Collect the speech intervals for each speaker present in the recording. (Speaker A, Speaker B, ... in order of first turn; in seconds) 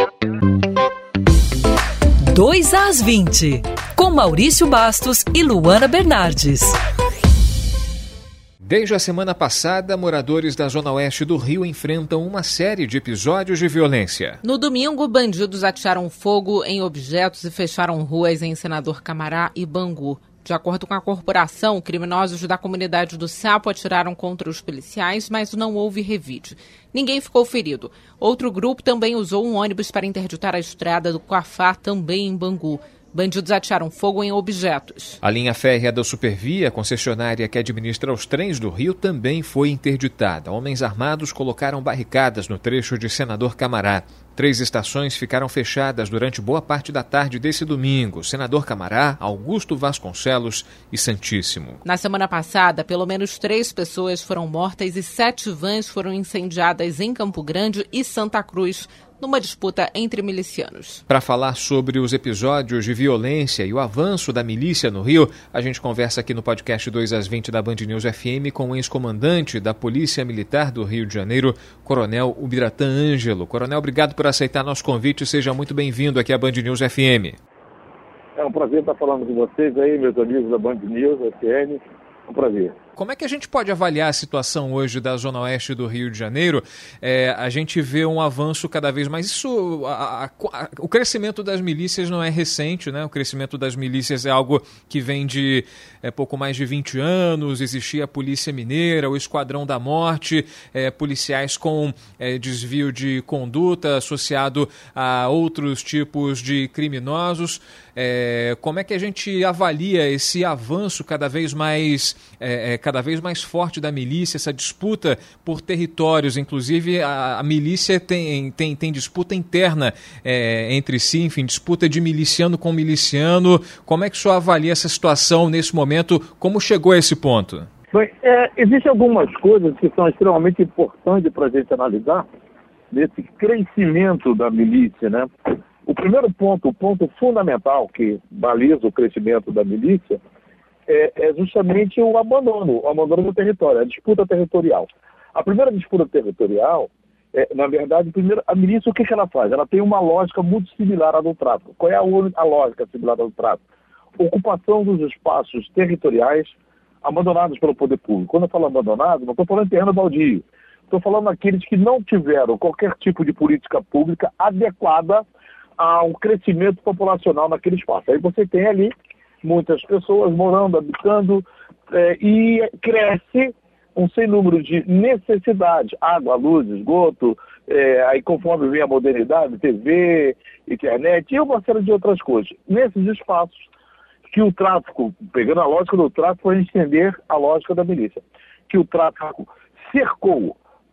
Speaker A: 2.3-6.8
Speaker B: 8.6-14.4, 35.2-51.8, 61.1-77.4, 83.0-127.7
Speaker C: 14.4-35.2, 51.8-61.0
Speaker D: 78.4-82.7, 127.9-132.2, 132.9-135.3, 135.8-140.2, 140.9-153.6, 154.2-165.2, 165.8-183.7, 184.3-190.6